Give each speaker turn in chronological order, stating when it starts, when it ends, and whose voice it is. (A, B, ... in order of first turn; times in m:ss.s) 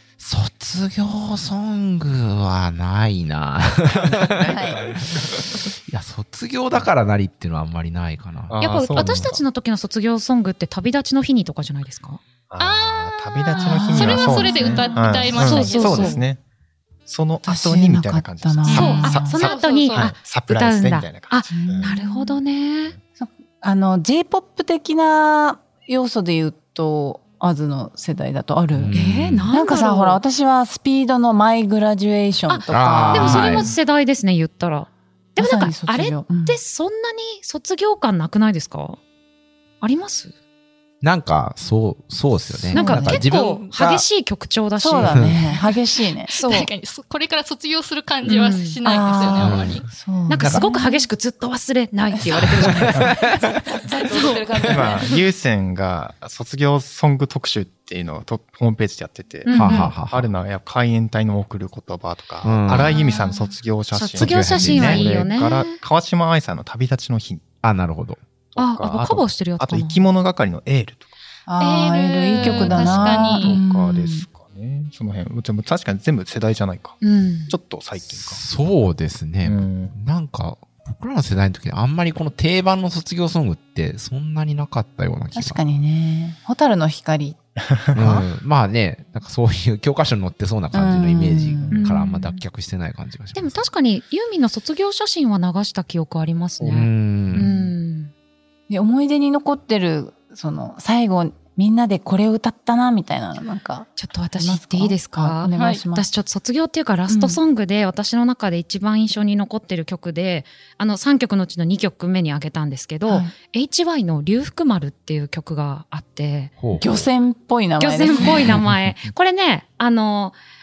0:00.2-0:09.3 A
0:04.0-0:05.6 B
0:04.4-0:04.8 C
0:08.5-0:09.4 B
0:08.6-0:12.2 D
0:12.5-0:16.4 B
0:12.6-0:16.2 E
0:13.5-0:15.4 C
0:13.8-0:16.2 D
0:17.1-0:21.9 B
0:17.4-0:19.4 C
0:18.6-0:20.1 E
0:18.7-0:22.9 D
0:21.5-0:22.4 C
0:23.2-0:29.0 C
0:28.7-0:29.5 A
0:28.9-0:30.2 D
0:29.5-0:33.6 C
0:32.5-0:39.0 D
0:32.7-0:33.7 A
0:35.4-0:36.6 C
0:39.8-0:40.3 D
0:41.0-0:44.0 A
0:42.7-0:43.2 C
0:42.7-0:45.4 D
0:43.4-0:43.6 E
0:44.8-0:46.3 C
0:46.3-0:46.7 D
0:46.3-0:49.9 E
0:48.2-0:48.8 D
0:48.8-0:51.1 C
0:49.4-0:49.8 A
0:50.3-0:53.3 D
0:50.4-0:50.7 A
0:52.6-0:53.8 A
0:53.8-0:55.0 C
0:54.0-0:54.4 D
0:54.7-1:07.5 B
0:59.4-0:59.9 D
0:59.5-1:00.3 A
0:59.5-0:59.9 C
1:02.4-1:03.0 A
1:02.8-1:03.5 E
1:03.9-1:05.8 D
1:04.2-1:05.1 A
1:07.6-1:08.2 A
1:08.5-1:11.1 B
1:08.6-1:10.0 D
1:11.5-1:14.2 C
1:11.6-1:13.6 E
1:12.4-1:18.4 B
1:17.0-1:17.5 D
1:18.0-1:25.6 A
1:19.4-1:19.9 B
1:25.3-1:27.4 C
1:27.9-1:33.6 A
1:27.9-1:28.2 C
1:30.7-1:31.8 C
1:31.8-1:32.4 D
1:33.3-1:38.1 D
1:36.6-1:37.5 A
1:37.3-1:37.7 B
1:38.7-1:46.1 C
1:44.0-1:56.5 D
1:45.5-1:45.8 E
1:47.1-1:47.4 C
1:53.1-1:53.3 C
1:56.6-1:57.1 A
1:56.8-1:58.6 C
1:57.8-2:00.4 D
1:58.5-1:59.1 B